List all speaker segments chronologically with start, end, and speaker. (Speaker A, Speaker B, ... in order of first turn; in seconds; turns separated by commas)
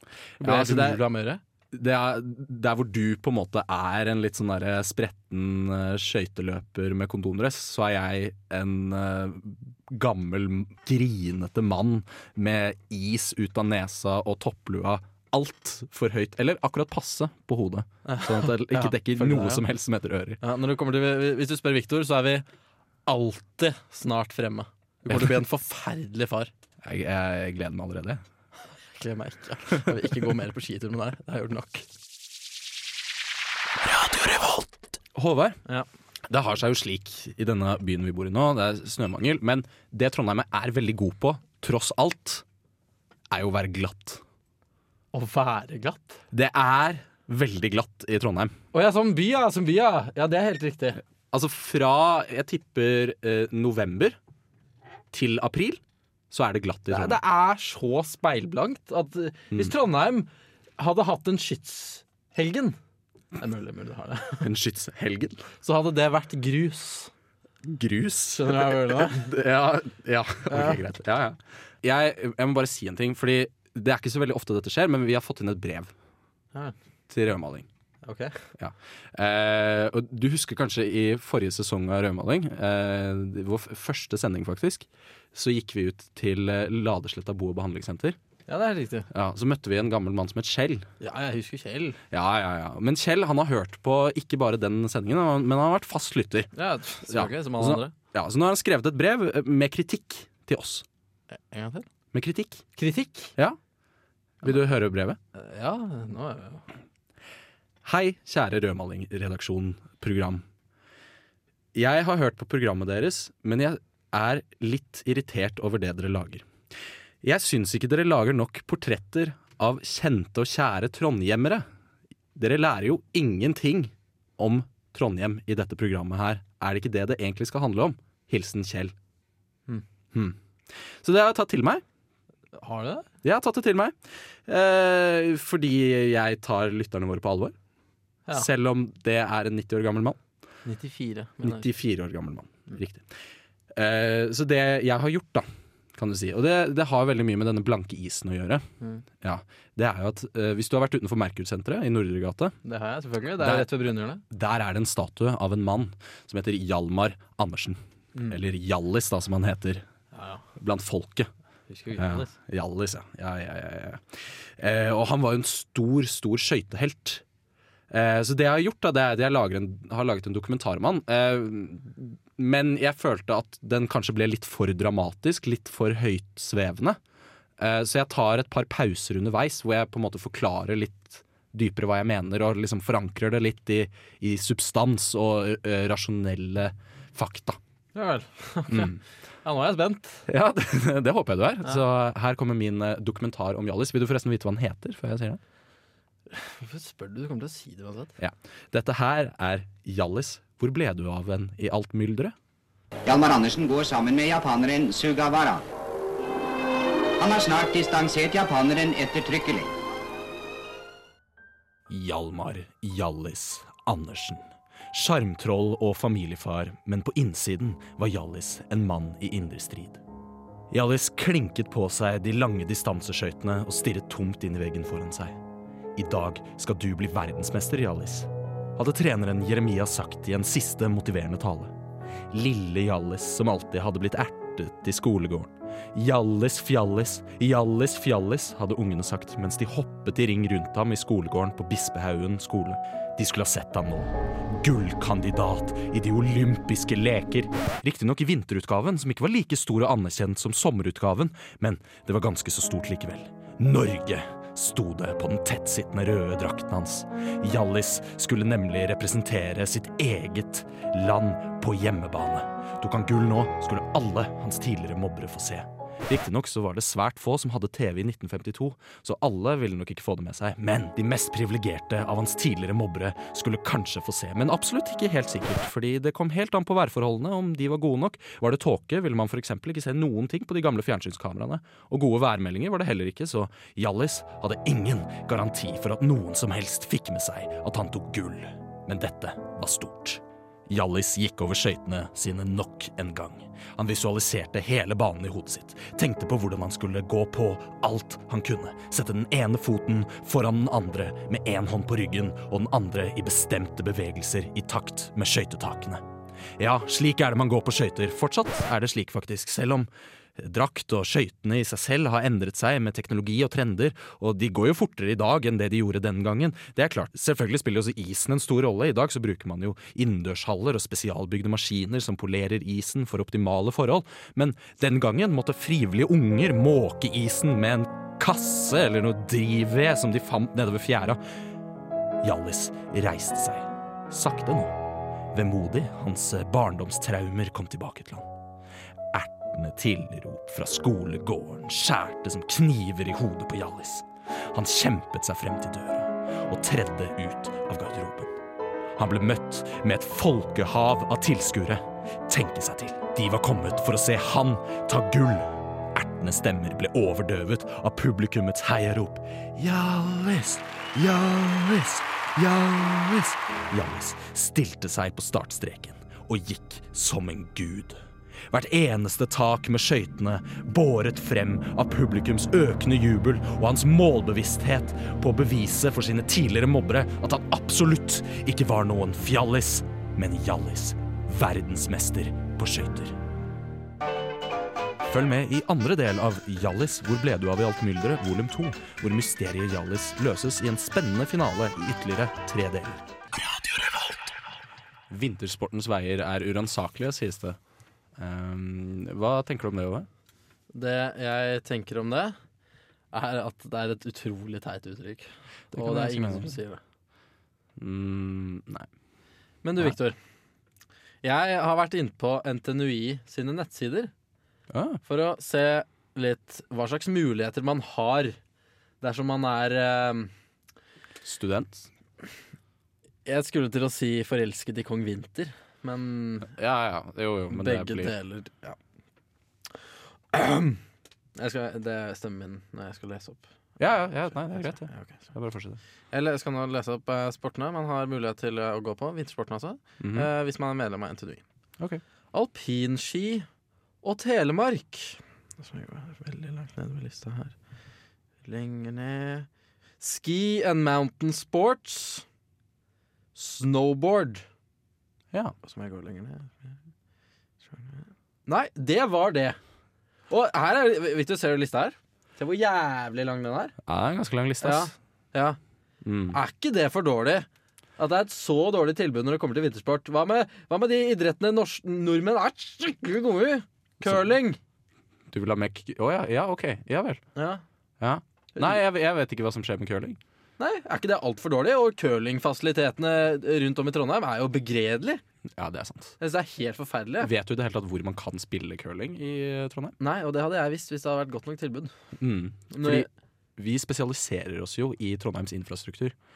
Speaker A: 0.4-1.0, Speaker B: 0.4-1.4, Speaker A: 1.7-20.4, Speaker B: 18.0-19.6, Speaker B: 20.4-22.4, Speaker B: 23.1-26.5, Speaker A: 25.1-25.4, Speaker A: 26.8-28.2, Speaker B: 28.9-31.8, Speaker A: 35.1-35.6, Speaker A: 36.3-42.4, Speaker A: 43.3-44.2, Speaker B: 45.1-46.2, Speaker A: 46.3-48.5, Speaker B: 48.7-51.0, Speaker A: 51.3-54.2, Speaker A: 55.1-57.2, Speaker B: 56.9-62.8, Speaker B: 63.4-64.5, Speaker A: 64.4-65.5, Speaker B: 65.6-67.1, Speaker A: 67.6-75.9, Speaker B: 68.3-69.2, Speaker B: 70.5-70.8, Speaker A: 77.1-77.7, Speaker B: 78.0-78.3, Speaker A: 78.6-88.2, Speaker B: 88.5-89.1, Speaker A: 89.1-90.8, Speaker B: 91.0-92.0, Speaker A: 92.1-96.5, Speaker B: 96.5-97.9, Speaker A: 97.0-100.8, Speaker B: 101.3-101.8, Speaker A: 102.1-102.6, Speaker B: 102.8-103.3, Speaker A: 104.4-105.2, Speaker B: 105.3-106.6, Speaker A: 107.8-110.4, Speaker A: 111.7-116.5, Speaker A: 117.2-121.6, Speaker A: 122.3-128.9, Speaker A: 130.1-130.4, Speaker A: 130.9-131.8, Speaker B: 132.6-133.1, Speaker A: 133.2-137.5, Speaker A: 138.3-140.2, Speaker B: 140.6-141.7, Speaker A: 141.4-143.1, Speaker A: 143.7-148.7, Speaker A: 149.2-152.6, Speaker B: 152.6-154.2, Speaker A: 153.4-153.7, Speaker A: 154.3-159.8, Speaker B: 160.1-160.4, Speaker A: 160.6-161.3, Speaker B: 161.7-162.3, Speaker A: 161.9-167.2, Speaker A: 167.9-177.0, Speaker A: 177.6-187.6, Speaker B: 187.9-190.2, Speaker A: 188.7-189.0, Speaker A: 190.3-195.4, Speaker B: 196.3-198.2, Speaker A: 198.2-202.3, Speaker C: 203.1-205.6, Speaker C: 207.2-209.7, Speaker A: 211.9-220.0, Speaker A: 220.7-225.4, Speaker A: 225.9-231.7, Speaker A: 232.3-306.0, Speaker A: 306.6-331.2, Speaker A: 332.2-334.8, Speaker A: 335.3-338.3, Speaker A: 339.1-348.3, Speaker A: 348.9-368.0, Speaker A: 368.5-383.2, Speaker A: 385.1-393.0, Speaker A: 395.1-397.6, Speaker A: 398.2-400.1, Speaker B: 400.7-402.4, Speaker B: 403.1-406.8, Speaker A: 405.7-406.5, Speaker A: 407.8-408.9, Speaker B: 409.6-410.1, Speaker B: 411.2-414.1, Speaker A: 414.7-415.0, Speaker B: 415.0-418.4, Speaker B: 419.0-420.3, Speaker A: 421.2-421.9, Speaker B: 423.2-426.5, Speaker A: 426.5-428.1, Speaker B: 427.5-428.8, Speaker B: 430.3-430.8, Speaker B: 431.4-433.5, Speaker A: 433.8-435.8, Speaker B: 434.6-435.3, Speaker B: 436.1-441.4, Speaker A: 440.0-440.3, Speaker B: 442.3-443.5, Speaker B: 444.0-447.5, Speaker B: 448.4-449.5, Speaker B: 450.0-452.2, Speaker B: 453.3-454.4, Speaker B: 455.6-456.8, Speaker B: 457.6-459.6, Speaker B: 460.3-463.7, Speaker A: 463.8-464.9, Speaker B: 464.6-465.6, Speaker A: 466.0-466.4, Speaker B: 466.3-474.6, Speaker A: 475.3-477.2, Speaker B: 477.4-477.6, Speaker A: 478.0-480.2, Speaker B: 480.6-485.2, Speaker A: 485.5-486.1, Speaker B: 486.2-487.3, Speaker A: 487.2-490.0, Speaker B: 490.0-491.9, Speaker A: 492.2-496.1, Speaker B: 492.7-493.1